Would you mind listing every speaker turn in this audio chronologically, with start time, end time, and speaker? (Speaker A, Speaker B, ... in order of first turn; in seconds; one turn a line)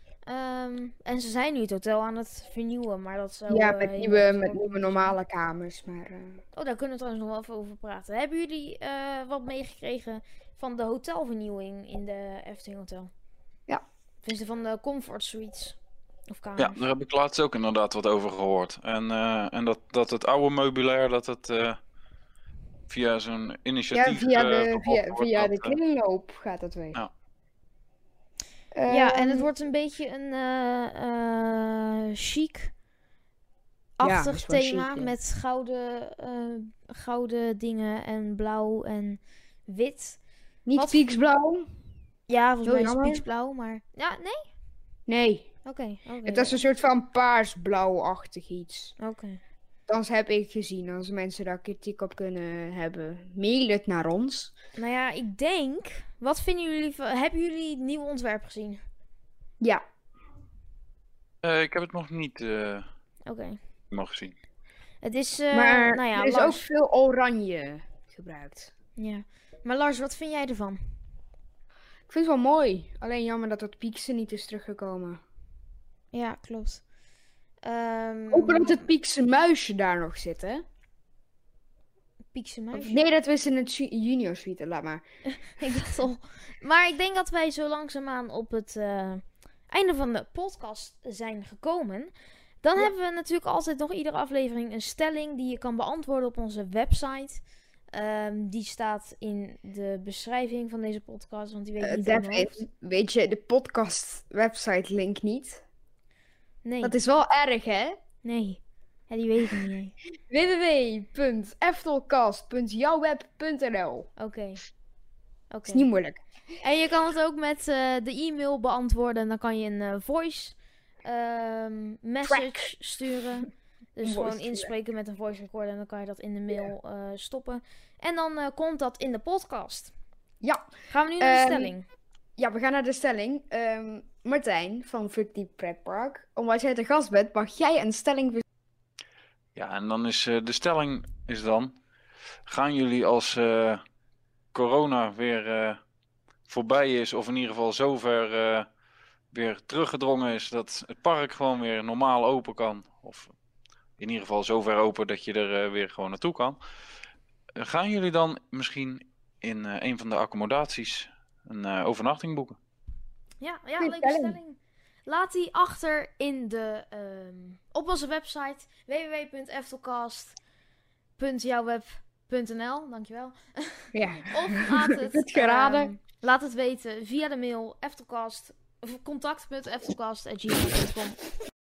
Speaker A: 0.2-5.2
Speaker B: 3.5-6.4
Speaker A: 6.5-13.1
Speaker A: 14.2-15.8
Speaker A: 16.3-16.8
Speaker C: 16.6-21.8
Speaker C: 22.9-25.8
Speaker B: 23.9-27.0
Speaker B: 28.7-29.5
Speaker A: 28.9-32.7
Speaker A: 34.0-40.2
Speaker B: 34.0-35.1
Speaker B: 40.6-41.7
Speaker A: 40.7-41.0
Speaker A: 42.3-44.5
Speaker B: 42.6-43.2
Speaker B: 45.1-45.5
Speaker A: 45.6-46.6
Speaker B: 46.2-48.9
Speaker A: 49.0-49.4
Speaker B: 49.9-54.5
Speaker A: 54.8-58.8
Speaker C: 61.4-62.9
Speaker A: 63.2-63.6
Speaker C: 63.9-64.3
Speaker A: 65.0-66.6
Speaker B: 65.5-68.7
Speaker A: 69.0-70.9
Speaker B: 72.1-75.2
Speaker A: 76.1-76.8
Speaker A: 77.6-78.8
Speaker B: 78.3-80.6
Speaker A: 82.3-83.0
Speaker B: 82.7-85.0
Speaker A: 85.5-102.6
Speaker B: 101.8-105.6
Speaker A: 106.6-107.0
Speaker B: 106.8-108.0
Speaker A: 108.2-109.9
Speaker B: 110.3-114.1
Speaker A: 114.2-114.6
Speaker A: 115.5-115.8
Speaker B: 115.7-116.2
Speaker A: 116.6-129.9
Speaker B: 122.2-122.7
Speaker B: 124.0-124.7
Speaker B: 130.4-130.7
Speaker A: 130.9-131.8
Speaker B: 131.2-131.7
Speaker B: 132.4-138.4
Speaker C: 139.5-141.8
Speaker C: 142.4-143.8
Speaker C: 144.5-145.8
Speaker C: 146.5-148.7
Speaker C: 149.3-153.3
Speaker C: 154.0-156.6
Speaker C: 157.6-162.6
Speaker A: 163.4-170.4
Speaker B: 163.8-164.4
Speaker A: 171.2-181.2
Speaker B: 173.9-175.9